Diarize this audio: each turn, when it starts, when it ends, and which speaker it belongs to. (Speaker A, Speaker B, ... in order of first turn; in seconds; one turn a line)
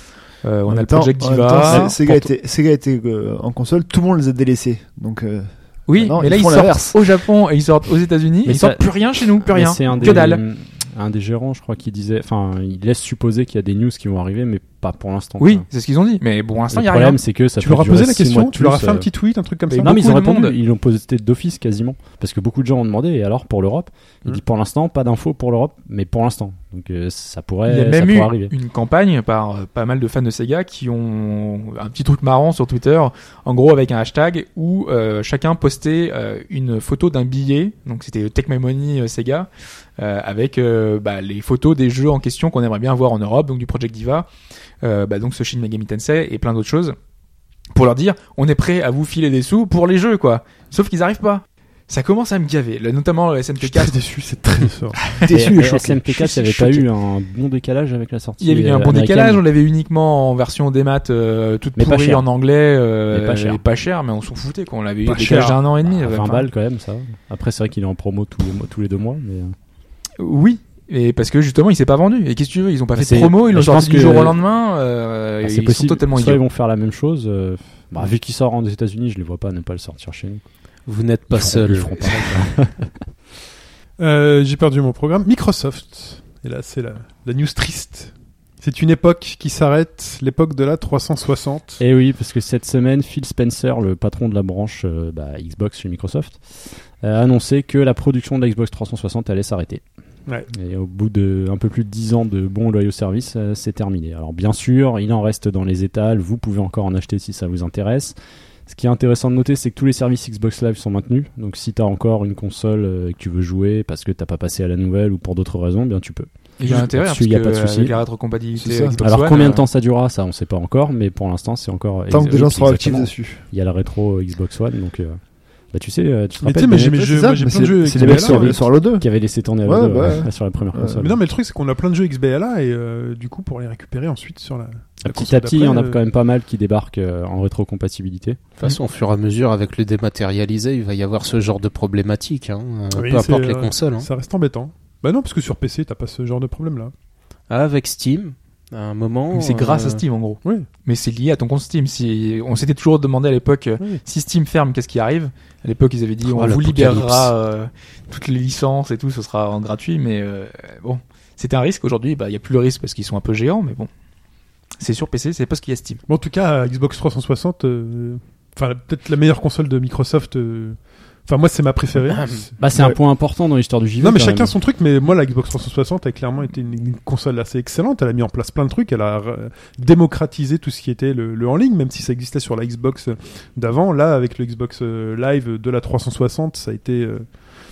Speaker A: 0.4-2.3
Speaker B: 0.7-7.0
Speaker A: 5.9-10.4
Speaker C: 8.4-15.6
Speaker D: 9.9-10.2
Speaker A: 15.4-17.2
Speaker C: 16.7-19.1
Speaker D: 17.6-20.0
Speaker A: 19.7-20.6
Speaker C: 19.8-28.5
Speaker A: 27.6-44.3
Speaker A: 44.8-46.9
Speaker A: 47.7-54.0
Speaker D: 53.6-55.2
Speaker C: 55.2-59.4
Speaker B: 55.3-56.6
Speaker A: 58.4-66.5
Speaker C: 61.8-62.2
Speaker C: 63.1-63.6
Speaker D: 65.0-65.6
Speaker C: 65.2-69.5
Speaker A: 70.2-76.4
Speaker C: 73.0-74.4
Speaker C: 75.4-80.4
Speaker E: 80.9-82.3
Speaker C: 81.3-83.0
Speaker D: 84.0-91.8
Speaker C: 91.8-99.8
Speaker C: 100.5-117.9
Speaker A: 116.6-119.6
Speaker B: 118.6-119.0
Speaker C: 119.0-127.3
Speaker B: 122.1-123.4
Speaker D: 126.4-128.7
Speaker B: 126.9-131.0
Speaker C: 127.9-131.2
Speaker D: 131.0-136.0
Speaker C: 135.0-138.5
Speaker E: 138.6-144.1
Speaker D: 142.9-146.9
Speaker E: 147.5-150.0
Speaker A: 149.3-163.9
Speaker E: 156.2-157.3
Speaker A: 164.8-166.0
Speaker D: 166.1-172.5
Speaker E: 172.1-172.4
Speaker C: 172.6-174.5
Speaker D: 174.0-187.3